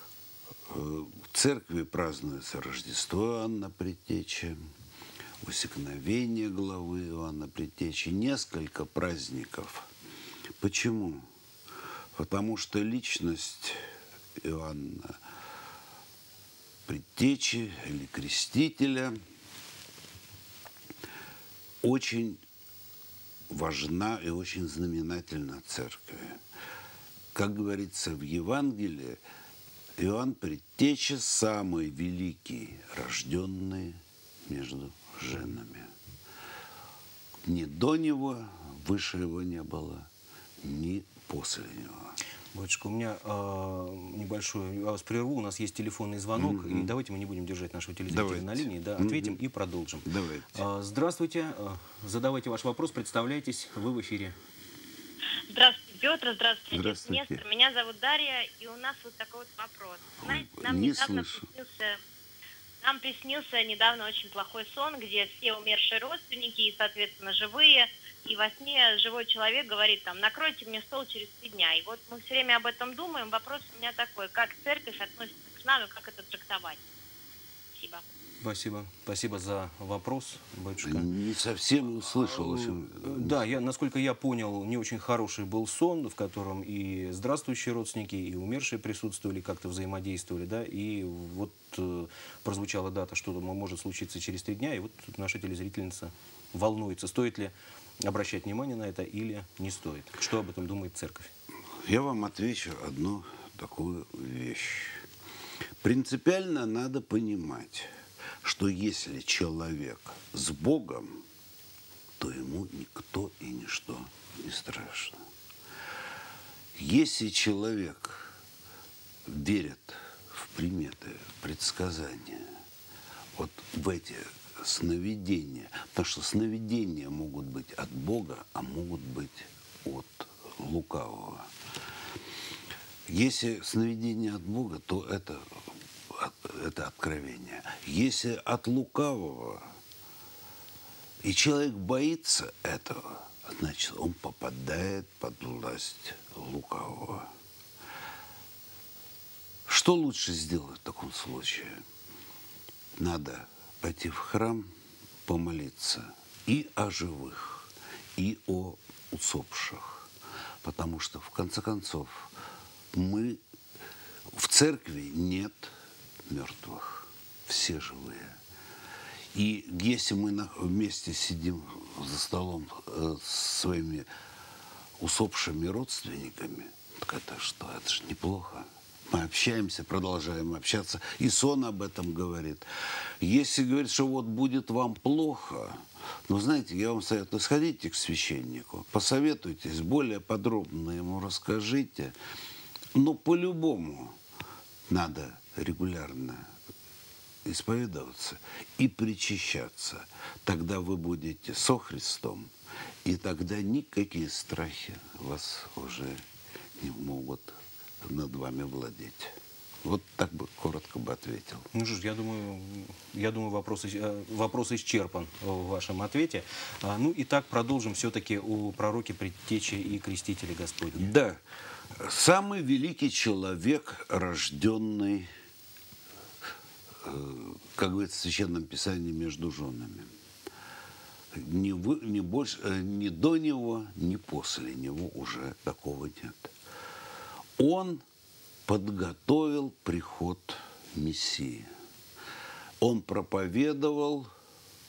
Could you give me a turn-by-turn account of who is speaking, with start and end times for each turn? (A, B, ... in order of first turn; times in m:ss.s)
0:00.7-0:04.6 A
0:05.4-0:09.9 A
0:10.6-0:11.2 A
0:12.1-0:13.8 A
0:14.4-0:15.2 A
0:16.9-0:19.2 A
0:21.8-0:22.4 A
0:23.5-0:26.4 A
0:27.3-0:29.2 A
0:30.0-0:35.9 A
0:37.4-0:40.1 A
0:40.6-0:42.2 A
0:42.5-0:54.4 B
0:46.4-0:46.9 A
0:48.1-0:49.4 A
0:50.0-0:50.6 A
0:55.5-1:02.0 C
0:56.7-0:57.4 A
1:00.2-1:01.5 A
1:02.8-1:16.8 C
1:17.8-1:18.0 C
1:18.4-1:21.1 B
1:20.8-1:23.4 A
1:22.1-1:41.3 B
1:41.8-1:45.0 A
1:45.8-1:47.9 A
1:48.4-1:51.2 A
1:52.2-1:55.2 A
1:56.7-1:58.4 A
1:59.2-2:02.5 A
2:03.4-2:11.5 A
2:13.1-2:15.6 A
2:16.1-2:19.7 A
2:21.2-2:27.3 A
2:29.7-2:31.8 A
2:33.0-2:34.7 A
2:35.2-2:40.1 A
2:40.6-2:42.3 A
2:42.9-2:43.4 A
2:44.3-2:45.7 A
2:46.3-2:48.4 A
2:49.3-2:54.1 A
2:55.0-3:02.6 A
3:03.2-3:12.1 A
3:12.9-3:14.2 A
3:14.9-3:16.5 A
3:17.4-3:22.5 A
3:23.0-3:26.2 A
3:26.8-3:31.7 A
3:31.7-3:41.1 B
3:40.9-3:41.4 A
3:42.0-3:45.3 A
3:47.0-3:50.1 A
3:51.3-3:56.5 A
3:57.6-3:58.0 A
3:58.6-4:01.7 A
4:02.8-4:04.3 A